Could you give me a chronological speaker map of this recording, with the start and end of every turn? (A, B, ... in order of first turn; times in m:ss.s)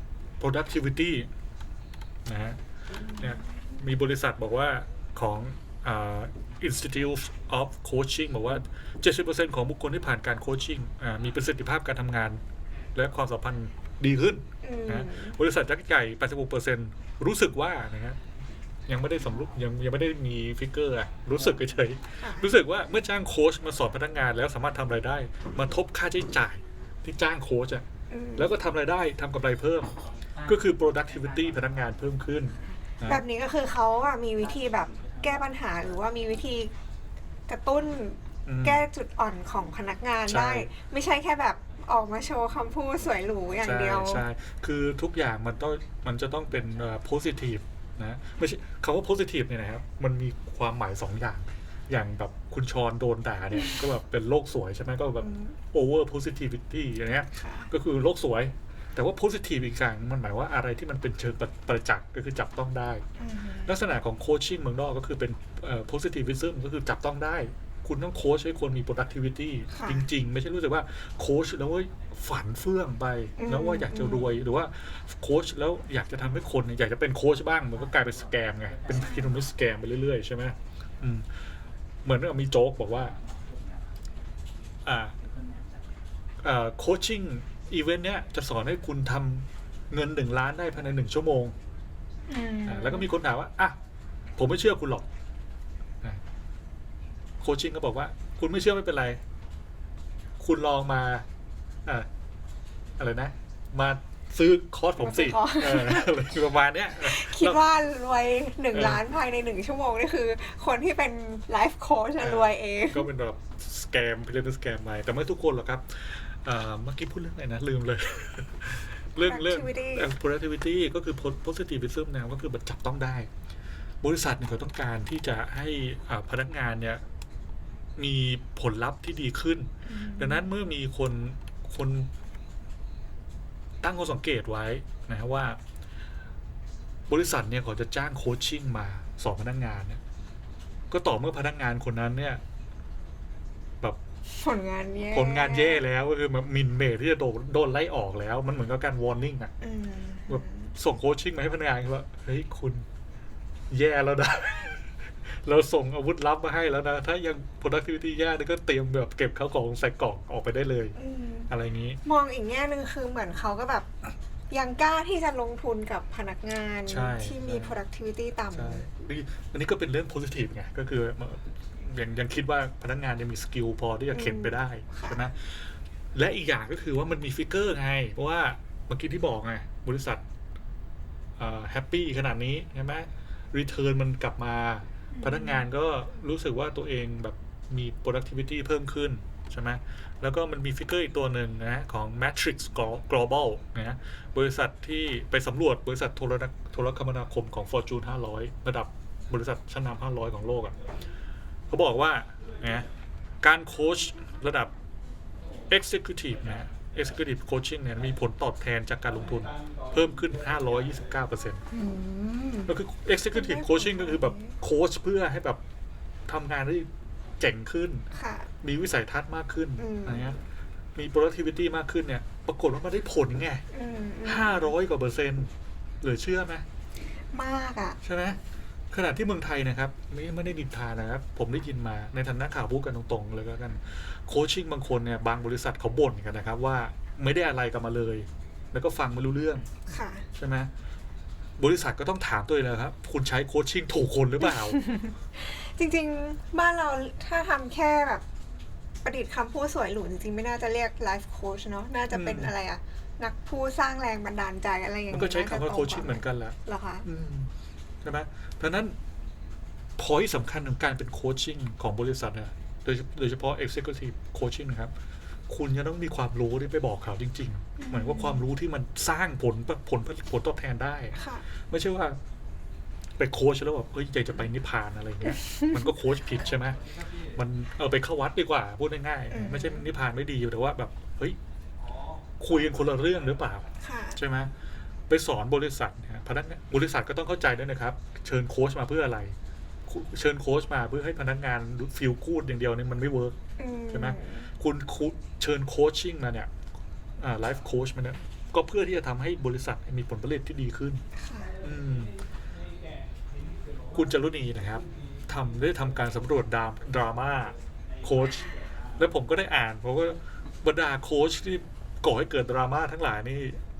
0:00.4-0:01.3 A
0:02.2-0:02.6 A
0:03.2-0:12.4 A
0:12.9-0:18.2 A
0:14.6-0:15.4 B
0:18.9-0:27.8 A
0:22.2-0:22.5 B
0:28.1-0:28.5 B
0:28.4-0:33.2 A
0:33.0-0:36.7 B
0:37.5-0:44.2 B
0:38.4-0:38.9 A
0:40.3-0:40.7 A
0:43.6-1:03.0 A
0:55.2-0:55.6 B
0:57.3-0:57.7 B
1:03.2-1:03.7 B
1:03.6-1:21.3 A
1:09.7-1:10.1 B
1:13.4-1:14.3 B
1:19.0-1:19.3 B
1:22.0-1:23.1 A
1:24.8-1:25.2 A
1:26.4-1:31.5 A
1:32.3-1:33.1 B
1:32.6-1:33.8 A
1:34.4-1:35.0 A
1:37.4-1:39.2 A
1:40.4-1:41.2 A
1:43.0-1:47.6 A
1:45.0-1:46.3 B
1:47.0-1:53.1 B
1:48.7-1:49.0 A
1:52.2-2:03.3 A
1:59.2-2:00.1 B
2:04.0-2:07.0 A
2:08.0-2:12.1 A
2:09.9-2:10.5 B
2:13.8-2:15.6 A
2:17.1-2:20.0 A
2:20.9-2:22.4 A
2:24.3-2:25.8 B
2:25.1-2:29.5 A
2:29.6-2:30.7 B
2:30.3-2:32.8 A
2:33.7-2:41.0 A
2:41.0-2:41.5 B
2:41.5-2:42.0 A
2:42.0-2:43.9 B
2:44.5-2:48.8 B
2:46.9-2:47.8 A
2:48.5-3:00.2 A
2:54.1-2:55.2 B
3:01.4-3:20.8 A
3:05.1-3:05.6 B
3:21.7-3:22.9 A
3:23.4-3:24.7 A
3:25.7-3:31.6 A
3:31.7-3:32.7 B
3:32.7-3:35.6 A
3:33.3-3:34.6 B
3:36.3-3:36.9 A
3:37.4-3:38.1 A
3:38.1-3:38.5 B
3:38.6-3:40.4 A
3:39.8-3:40.3 B
3:40.9-3:43.6 A
3:43.7-3:44.7 B
3:44.2-3:45.5 A
3:46.0-3:46.6 A
3:47.3-3:48.0 B
3:48.0-3:48.4 A
3:48.9-4:00.7 A
3:59.8-4:00.2 B
4:01.6-4:04.8 A
4:04.5-4:08.2 B
4:09.0-4:17.1 B
4:12.1-4:12.5 A
4:15.1-4:17.5 A
4:18.0-4:19.0 A
4:20.0-4:24.9 A
4:25.5-4:32.2 A
4:27.8-4:28.5 B
4:31.1-4:31.4 B
4:33.2-4:41.4 A
4:35.4-4:35.8 B
4:39.3-4:39.8 B
4:42.4-4:44.5 A
4:43.8-4:44.2 B
4:45.1-4:49.3 A
4:49.9-4:53.4 A
4:53.6-4:54.5 B
4:53.9-4:56.5 A
4:57.2-5:01.0 A
5:01.2-5:01.6 B
5:01.6-5:02.2 A
5:03.9-5:13.6 A